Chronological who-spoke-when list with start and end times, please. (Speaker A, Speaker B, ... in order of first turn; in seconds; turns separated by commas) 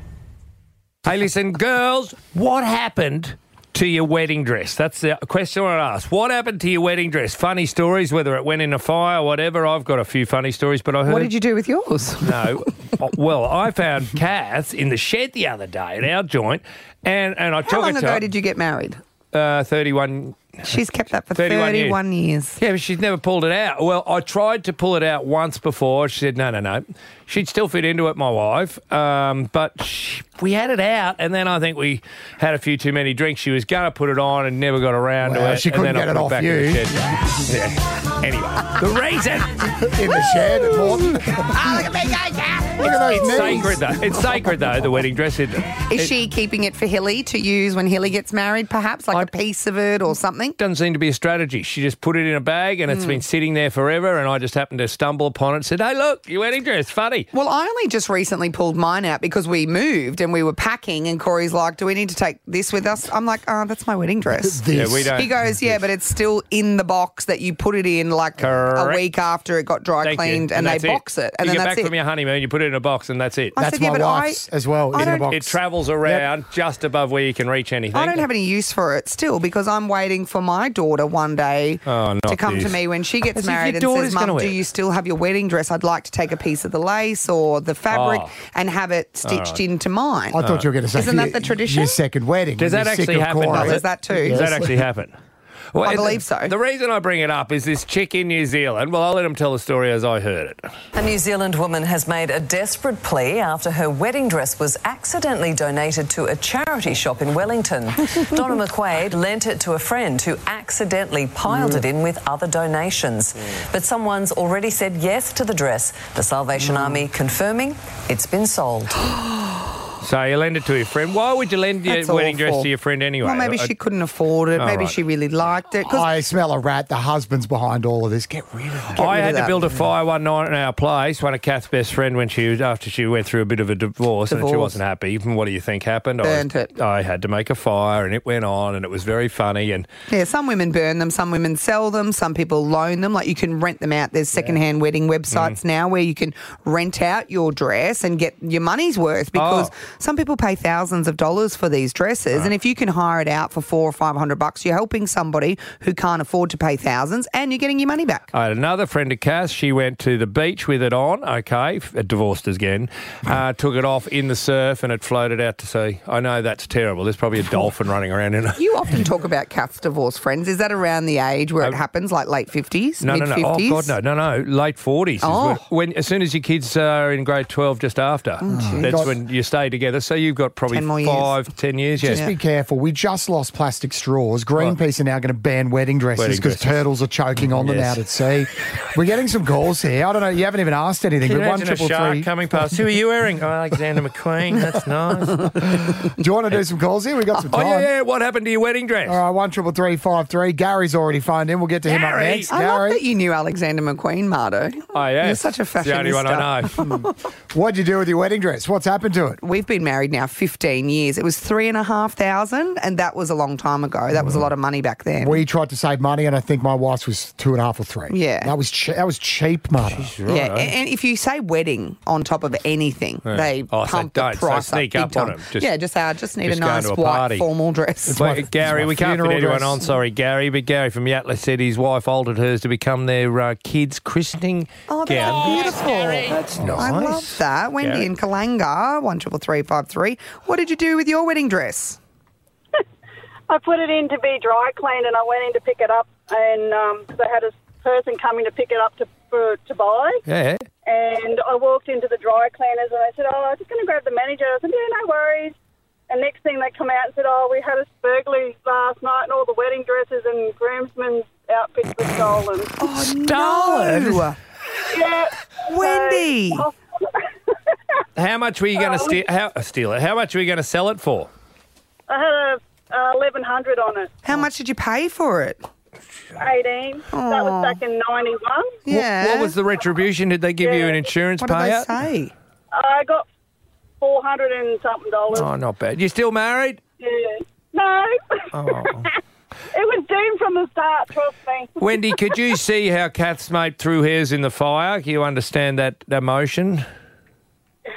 Speaker A: 1.1-11.3, Speaker B: 11.1-12.4, Speaker A: 12.2-18.2, Speaker B: 17.6-19.0, Speaker A: 19.3-20.7, Speaker B: 20.7-22.6, Speaker A: 21.4-22.0, Speaker A: 22.6-39.7, Speaker C: 35.2-37.4, Speaker C: 39.8-42.2, Speaker B: 41.5-43.4, Speaker C: 42.8-43.8, Speaker A: 42.8-46.1, Speaker B: 45.9-50.6, Speaker A: 50.6-57.3, Speaker B: 52.9-53.2, Speaker B: 57.3-71.9, Speaker C: 64.3-65.4, Speaker A: 64.7-65.3, Speaker A: 68.4-69.0, Speaker A: 70.0-73.6, Speaker B: 73.6-75.3, Speaker C: 73.6-76.3, Speaker A: 75.3-78.2, Speaker B: 77.9-90.4, Speaker A: 81.9-82.8, Speaker A: 83.3-84.6, Speaker A: 87.9-88.3, Speaker A: 89.3-89.6, Speaker C: 90.3-94.7, Speaker A: 90.4-90.7, Speaker B: 90.9-92.0, Speaker A: 92.6-95.2, Speaker B: 93.5-94.5, Speaker A: 95.7-100.7, Speaker B: 95.8-96.5, Speaker D: 101.0-119.0, Speaker A: 120.0-123.7, Speaker B: 121.9-122.7, Speaker B: 123.2-126.1, Speaker A: 124.6-125.0, Speaker C: 125.8-129.3, Speaker B: 128.9-129.7, Speaker A: 129.0-139.9, Speaker B: 134.3-134.8, Speaker B: 136.2-136.7, Speaker B: 140.1-158.3, Speaker A: 145.3-145.6, Speaker A: 149.3-149.7, Speaker A: 158.3-168.6, Speaker B: 168.6-173.9, Speaker A: 173.0-182.2, Speaker B: 175.2-175.6, Speaker B: 178.4-179.2, Speaker C: 178.5-179.1, Speaker B: 180.7-181.4, Speaker C: 182.0-192.8, Speaker B: 182.1-182.3, Speaker A: 186.2-186.8, Speaker A: 187.4-188.0, Speaker A: 191.2-195.9, Speaker C: 195.8-197.9, Speaker A: 197.5-199.2, Speaker C: 199.1-203.0, Speaker A: 201.9-202.5, Speaker B: 202.5-207.1, Speaker A: 204.9-206.8, Speaker C: 207.5-209.4, Speaker B: 209.4-215.4, Speaker C: 215.2-220.1, Speaker B: 218.1-218.5, Speaker A: 219.8-220.7, Speaker B: 220.3-228.2, Speaker A: 223.3-225.7, Speaker A: 226.4-227.4, Speaker C: 228.1-229.8, Speaker A: 228.1-238.1, Speaker B: 234.9-242.0, Speaker C: 236.6-236.9, Speaker E: 243.5-250.2, Speaker A: 250.3-250.7, Speaker E: 250.8-255.6, Speaker E: 256.1-262.7, Speaker B: 262.8-264.4, Speaker A: 262.8-264.3, Speaker E: 264.9-266.7, Speaker B: 265.7-266.7, Speaker A: 268.2-271.3, Speaker E: 268.8-269.2, Speaker E: 272.1-274.1, Speaker B: 274.2-275.6, Speaker E: 276.4-278.8, Speaker B: 277.1-277.8, Speaker B: 278.9-279.6, Speaker A: 278.9-281.9, Speaker E: 280.6-281.1, Speaker B: 281.4-282.3, Speaker E: 282.7-283.3, Speaker E: 284.0-285.5, Speaker A: 285.3-286.8, Speaker E: 287.0-288.2, Speaker A: 288.5-289.1, Speaker E: 289.7-292.4, Speaker A: 291.8-296.9